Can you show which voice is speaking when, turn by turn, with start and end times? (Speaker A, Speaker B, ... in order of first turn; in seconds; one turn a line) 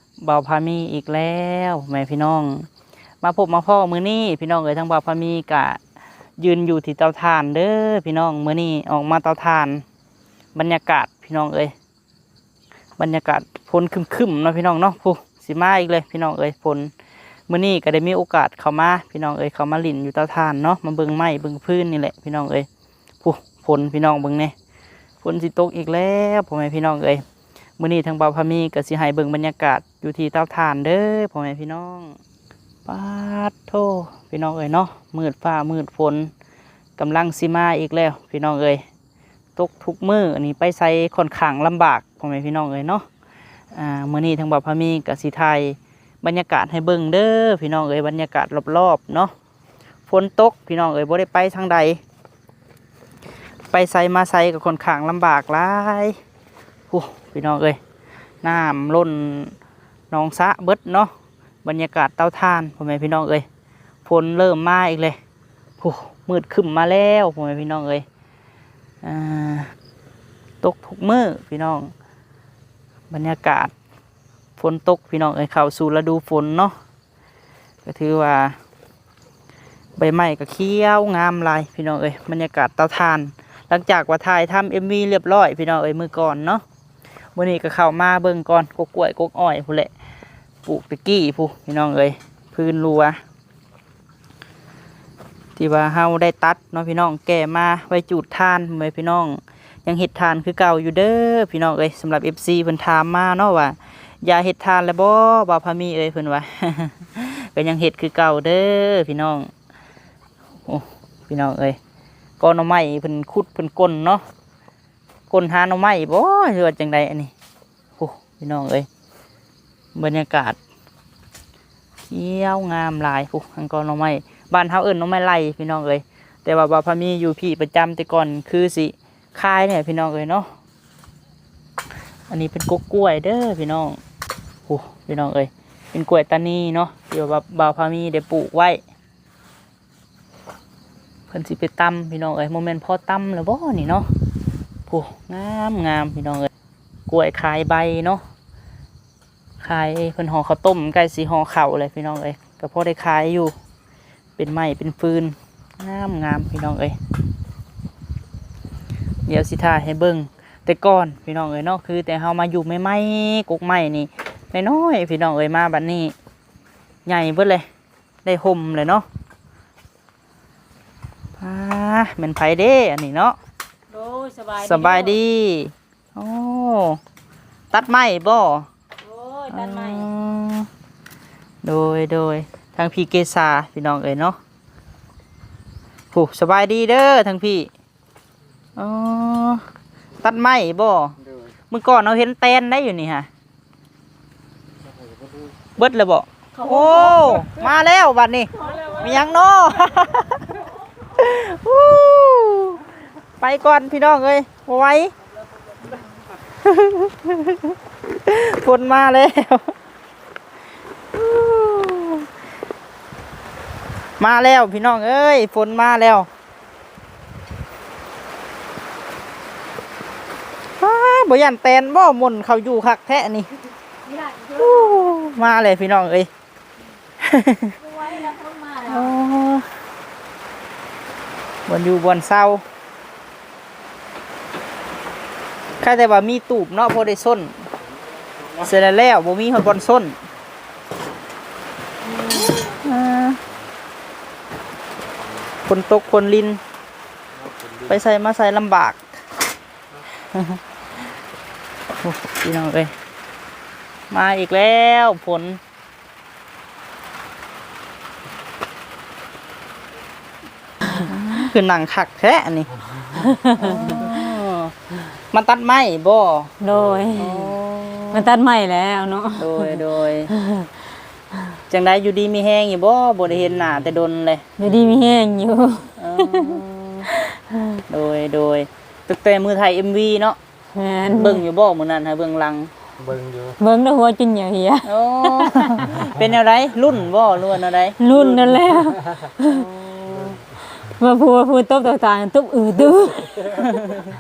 Speaker A: 0.2-2.7
Speaker A: 3.2-5.8
Speaker A: 6.4-9.8
Speaker A: 10.6-11.7
Speaker A: 13.0-16.9
Speaker A: 17.5-22.7
Speaker A: 23.2-24.5
Speaker A: 25.2-27.2
Speaker A: 27.8-32.2
Speaker A: 32.9-36.3
Speaker A: 37.0-38.8
Speaker A: 39.6-43.1
Speaker A: 43.7-49.3
Speaker A: 50.1-52.0
Speaker A: 53.7-56.1
Speaker A: 56.9-57.8
Speaker A: 58.4-59.5
Speaker A: 60.1-61.1
Speaker A: 61.6-63.5
Speaker A: 64.1-65.2
Speaker A: 65.8-68.0
Speaker A: 69.0-69.7
Speaker A: 70.6-71.9
Speaker A: 73.1-73.7
Speaker A: 74.6-76.8
Speaker A: 77.9-78.5
Speaker A: 80.0-86.6
Speaker A: 87.4-89.9
Speaker A: 90.7-93.2
Speaker A: 95.6-109.5
Speaker A: 110.7-111.8
Speaker A: 112.4-114.2
Speaker A: 115.3-117.3
Speaker A: 118.0-118.9
Speaker A: 120.0-120.6
Speaker A: 122.1-130.5
Speaker A: 132.3-134.0
Speaker A: 134.7-138.8
Speaker A: 141.3-144.1
Speaker A: 144.9-146.5
Speaker A: 147.1-148.2
Speaker A: 149.6-153.5
Speaker A: 154.4-157.0
Speaker A: 159.3-166.1
Speaker A: 167.1-167.7
Speaker A: 168.2-169.1
Speaker A: 171.4-173.4
Speaker B: 173.9-175.2
Speaker A: 174.6-177.0
Speaker A: 177.7-178.7
Speaker B: 179.0-180.1
Speaker A: 179.5-180.7
Speaker A: 181.6-184.4
Speaker A: 186.1-187.7
Speaker A: 188.8-189.6
Speaker A: 190.2-191.2
Speaker A: 191.7-193.3
Speaker A: 195.8-200.5
Speaker B: 196.6-197.7
Speaker B: 198.6-199.3
Speaker A: 201.1-202.8
Speaker A: 203.4-205.1
Speaker A: 206.6-209.7
Speaker A: 211.1-212.3
Speaker A: 214.2-216.3
Speaker A: 220.8-223.5
Speaker B: 224.1-225.3
Speaker A: 224.6-226.3
Speaker A: 227.2-227.7
Speaker B: 227.8-229.1
Speaker A: 228.9-229.8
Speaker A: 231.7-232.6
Speaker A: 235.8-237.7
Speaker A: 238.6-240.2
Speaker A: 242.3-243.4
Speaker A: 245.7-246.6
Speaker A: 247.9-249.0
Speaker A: 250.3-250.6
Speaker A: 252.0-252.9
Speaker A: 254.1-255.6
Speaker A: 260.9-262.8
Speaker B: 263.1-264.2
Speaker A: 263.6-266.5
Speaker B: 266.6-267.6
Speaker C: 266.7-267.2
Speaker A: 267.2-268.3
Speaker B: 268.1-270.9
Speaker A: 269.4-270.3
Speaker A: 271.7-274.4
Speaker C: 273.3-274.0
Speaker B: 274.6-276.6
Speaker C: 274.6-275.2
Speaker A: 276.0-277.1
Speaker B: 277.1-277.6
Speaker A: 277.9-280.4
Speaker B: 280.7-281.4
Speaker A: 281.1-282.7
Speaker C: 283.0-283.6
Speaker B: 283.6-285.9
Speaker A: 284.9-288.0
Speaker B: 288.0-289.6
Speaker A: 289.4-290.4
Speaker C: 290.1-290.4
Speaker B: 290.8-293.5
Speaker A: 293.5-294.0